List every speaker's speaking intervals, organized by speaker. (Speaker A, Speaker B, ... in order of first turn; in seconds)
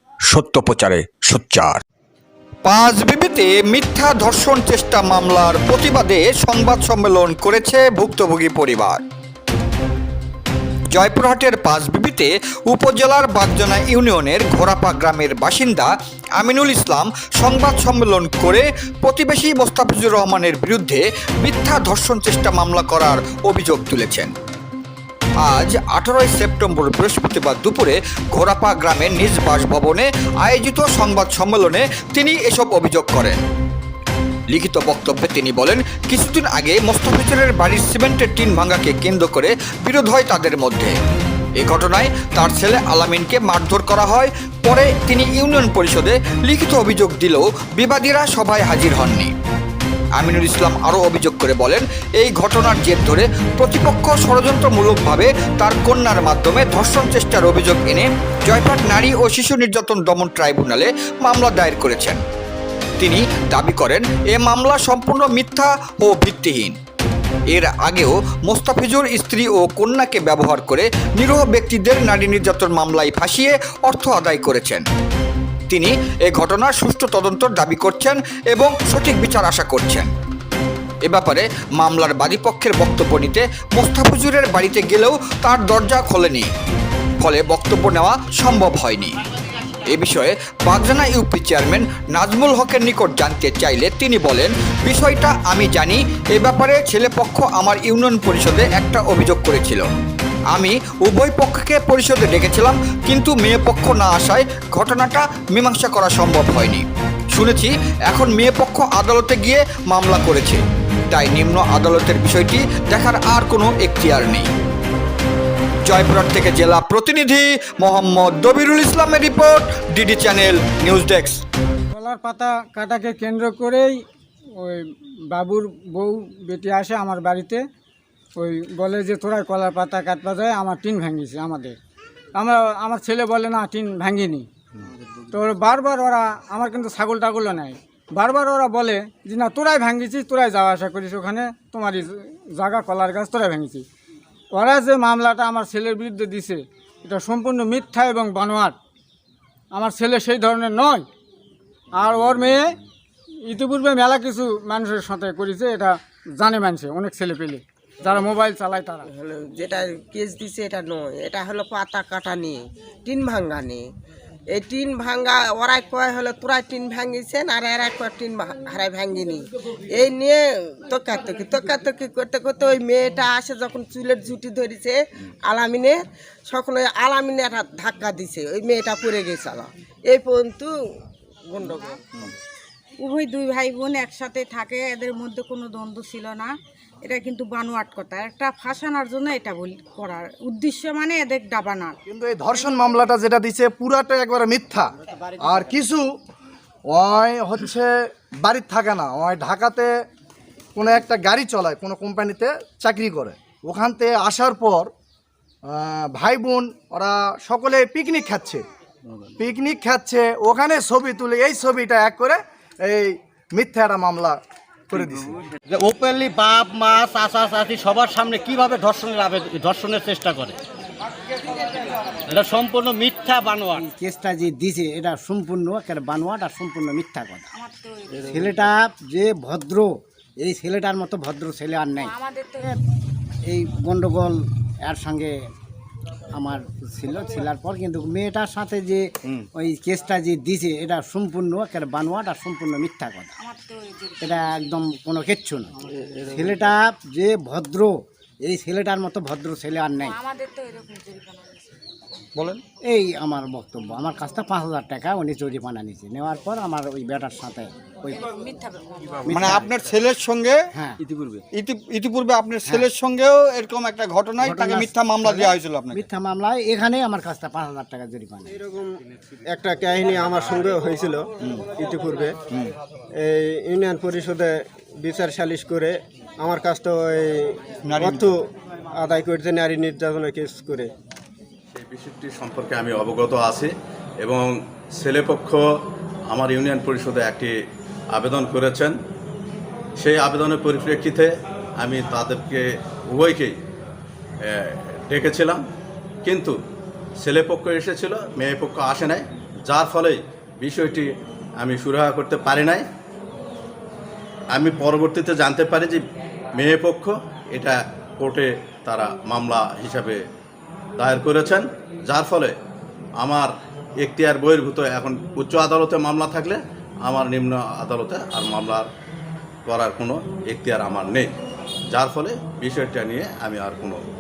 Speaker A: 0.3-1.8, 2.6-9.0, 10.9-24.3, 25.4-33.4, 34.5-40.9, 41.6-49.3, 50.1-62.2, 63.0-66.8, 67.5-74.8, 75.7-80.1, 81.0-86.5, 87.2-89.2, 89.9-99.9, 100.5-114.5, 115.8-121.4, 259.3-260.7, 261.3-266.0, 277.9-278.2
Speaker B: 121.9-124.0, 124.5-127.6, 128.4-131.8, 132.3-134.5, 135.3-143.8, 144.5-148.8, 149.7-151.1, 151.9-152.7, 153.4-159.0
Speaker C: 159.1-163.8, 164.5-180.7, 181.5-182.3
Speaker D: 183.0-191.9, 227.6-228.4, 232.0-232.8, 243.4-244.5, 250.0-251.8, 258.2-259.3
Speaker E: 192.1-196.1, 196.9-199.9, 200.8-204.9, 205.7-208.6, 209.4-215.4
Speaker F: 215.7-220.5, 222.3-223.8
Speaker G: 223.7-227.6, 228.2-232.1, 233.5-235.3, 236.3-243.3, 244.2-250.2, 252.8-258.3, 259.2-259.7, 260.7-261.0, 262.6-262.9, 264.4-268.6
Speaker H: 268.5-268.9, 269.5-272.4, 273.1-278.4, 279.0-280.9
Speaker I: 281.7-285.6, 286.3-287.5, 288.1-288.9, 290.0-293.6, 294.4-295.6, 296.2-296.5, 297.2-301.1, 301.6-302.8, 304.5-306.0, 306.5-310.2, 311.0-312.5, 313.2-318.9, 319.6-321.3, 321.9-324.0